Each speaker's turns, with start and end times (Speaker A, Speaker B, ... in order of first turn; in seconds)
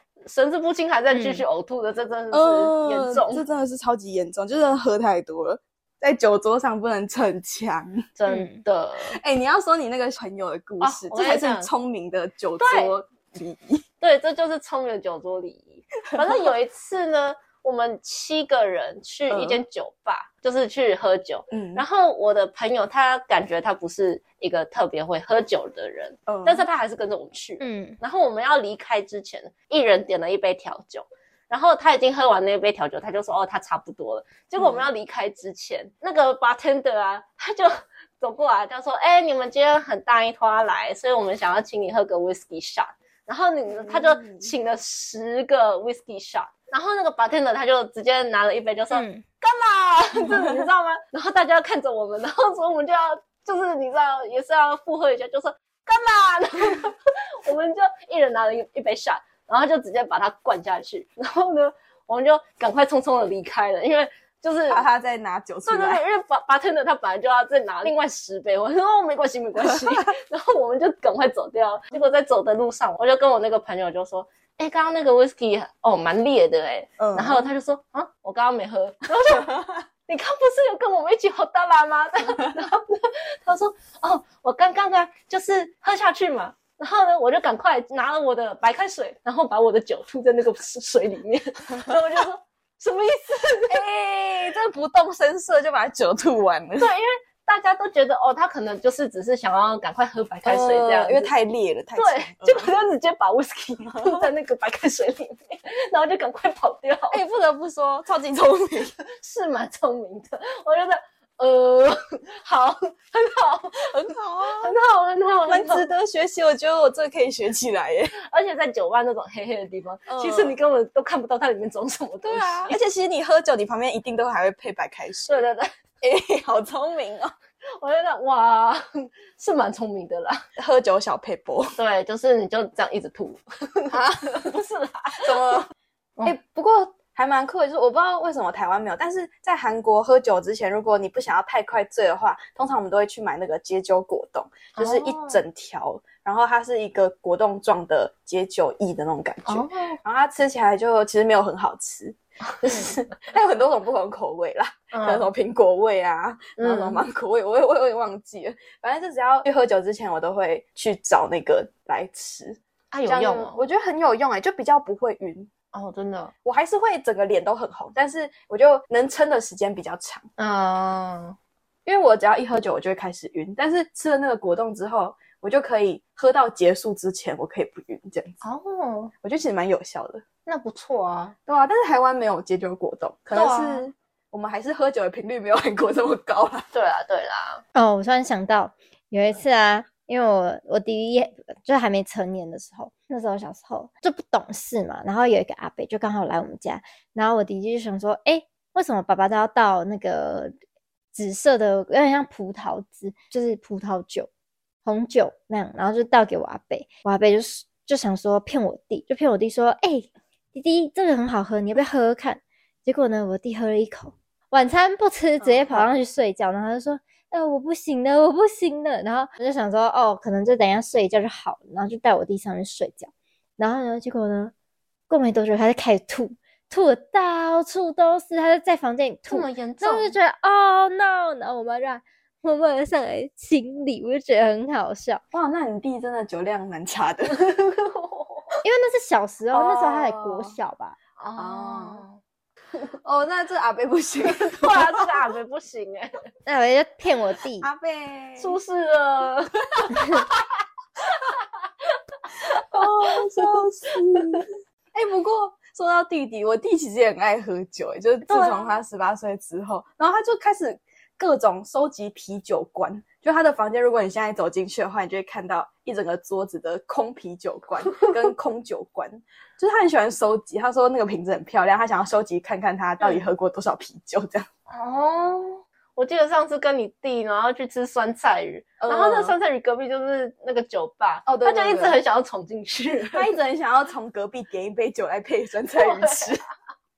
Speaker A: 0.2-3.4, 8.2-9.2, 10.8-11.7, 12.6-12.9, 14.0-64.8, 65.7-79.5, 80.1-93.8, 96.8-101.3, 102.0-107.2, 109.1-115.9, 118.2-122.8, 125.3-125.7, 127.8-130.4, 131.8-135.6, 144.8-145.4, 149.5-150.0, 152.6-152.9, 154.9-155.3, 156.6-157.0, 162.9-163.6, 165.7-166.3, 170.4-171.3, 178.4-179.1, 180.4-181.3, 183.3-183.8, 186.7-187.6, 229.3-230.1, 237.4-238.5, 241.2-242.2, 244.3-246.2, 248.4-250.4, 251.1-251.4, 252.3-253.5, 254.2-254.4, 258.3-258.7, 274.7-283.3, 285.7-286.4
Speaker B: 1.1-1.4, 8.3-8.6, 27.6-28.0, 48.9-49.2, 187.7-200.5, 201.1-204.3, 204.8-224.5, 225.1-235.2, 238.6-241.0, 246.4-247.7
Speaker C: 2.3-8.1, 9.1-13.8, 19.3-19.6, 21.5-21.8, 26.3-26.6, 34.6-34.8, 43.7-44.5, 50.2-50.6, 64.7-66.0, 69.7-70.0, 77.0-77.5, 79.2-79.8, 93.7-96.9, 100.4-102.8, 103.8-104.3, 107.1-108.9, 113.7-114.8, 115.5-118.2, 120.1-120.5, 122.2-125.4, 126.0-127.3, 130.6-131.8, 133.9-134.5, 135.2-135.7, 136.2-165.5, 166.4-170.3, 171.8-178.4, 179.2-180.2, 181.5-186.7, 215.4-215.8, 235.3-237.5, 239.5-240.6, 241.3-242.0, 243.0-245.2, 247.6-248.6, 252.6-274.5, 278.8-279.3, 281.2-282.0, 283.1-286.4